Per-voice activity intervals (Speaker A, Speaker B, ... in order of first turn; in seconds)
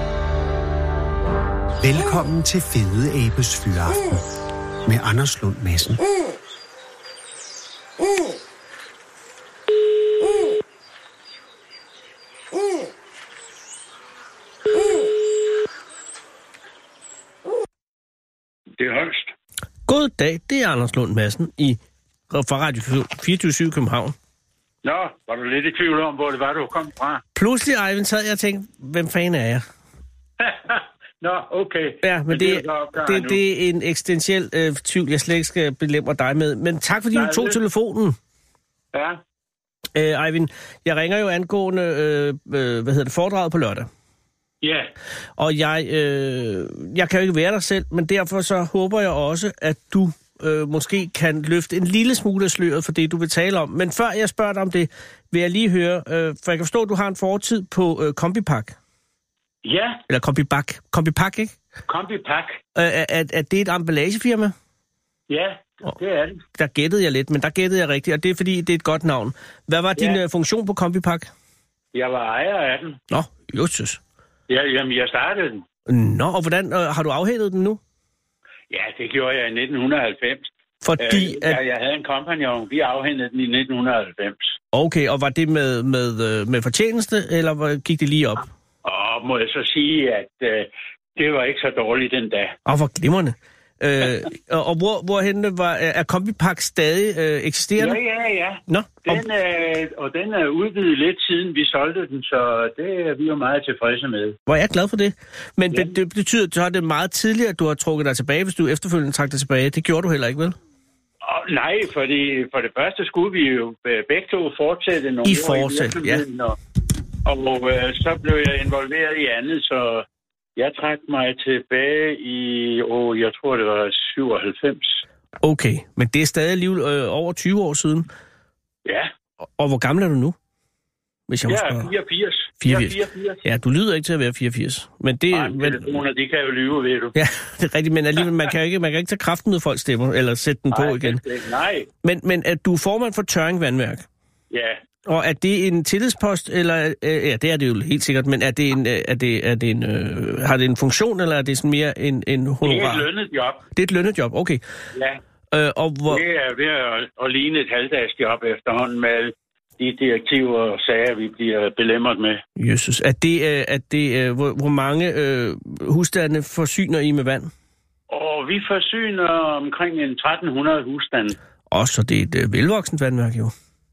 Speaker A: 1.8-4.3, 4.9-6.0
Speaker B: 18.8-19.3, 24.8-27.2, 30.4-33.4, 37.1-37.6, 38.9-39.2, 44.6-44.9, 59.6-60.0, 61.9-62.6, 65.3-66.4, 71.9-73.0, 74.5-75.6, 78.7-84.6, 88.8-92.6, 97.8-104.4, 111.2-116.6, 117.2-120.0, 120.6-125.0, 128.9-129.1, 131.5-133.4, 135.3-137.2, 140.7-141.9, 144.5-144.8, 152.6-153.7, 154.9-155.2, 156.1-162.4, 168.1-171.4
Speaker C: 19.9-21.8, 22.3-24.1, 27.4-29.6, 32.0-38.2, 40.0-43.9, 45.4-58.8, 60.1-61.5, 62.8-64.5, 66.6-71.3, 73.1-74.0, 75.9-77.8, 80.8-81.6, 84.7-88.5, 92.7-98.0, 98.7-99.2, 104.5-110.5, 115.2-116.2, 125.4-128.1, 129.4-130.4, 131.3-131.9, 132.6-136.0, 137.2-141.2, 142.0-144.1, 145.1-153.1, 153.8-154.6, 155.5-156.2, 162.6-167.5, 171.7-173.5